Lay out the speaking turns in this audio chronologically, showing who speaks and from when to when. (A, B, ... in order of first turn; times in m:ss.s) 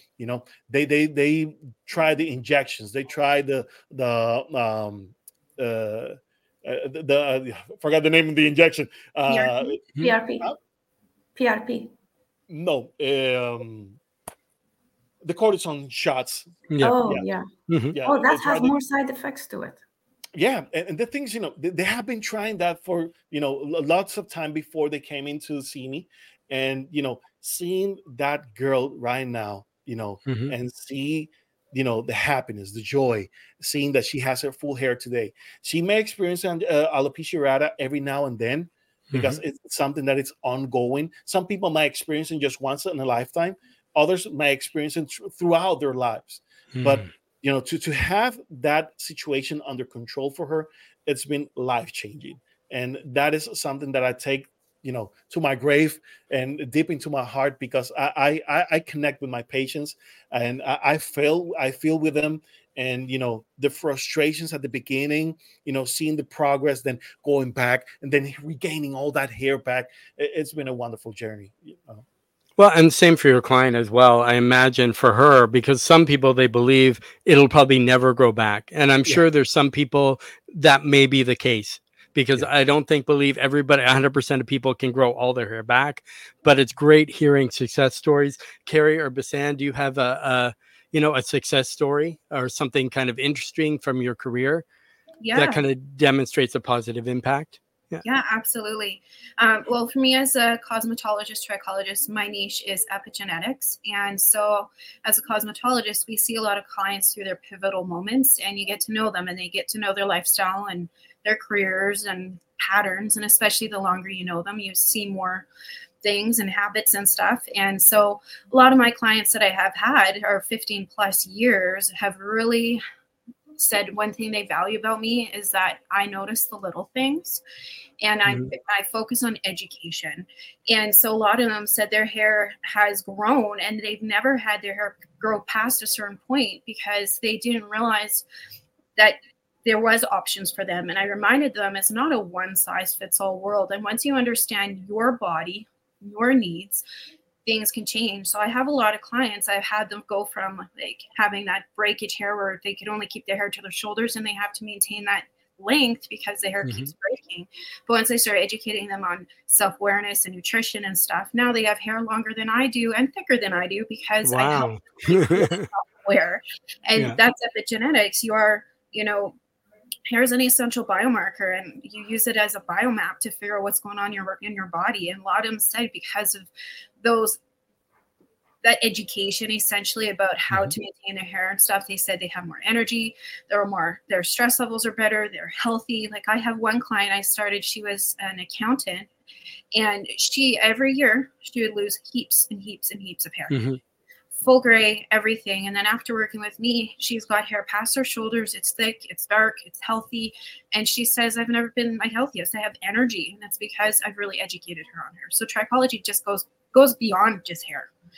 0:00.2-0:09.8 A
0:09.3-0:10.5 B
0:11.4-0:11.9 B
0:12.5-0:14.0 A
0:15.2-0:16.5 A
0:16.7-0:17.0 C
0:16.8-0:17.5 B
0:17.7-0:18.0 C
0:17.9-0:18.7 A
0:18.0-0:19.8 B
0:20.4-1:12.0 A
0:30.3-0:30.5 C
0:39.1-0:39.4 C
0:46.7-0:47.1 C
1:12.6-1:34.6 C
1:35.2-1:35.6 D
1:35.3-1:38.0 C
1:38.0-1:55.4 D
1:56.0-2:02.8 D
2:03.6-2:07.4 D
2:08.0-2:18.2 D
2:08.2-2:08.5 C
2:19.0-2:26.8 D
2:27.4-2:49.3 D
2:36.6-2:36.9 C
2:44.2-2:45.7 C
2:50.1-2:56.5 D
2:57.0-2:57.4 D
2:58.6-3:09.1 D
3:00.5-3:00.8 C
3:09.7-3:13.6 D
3:13.5-3:13.8 C
3:14.3-3:27.9 D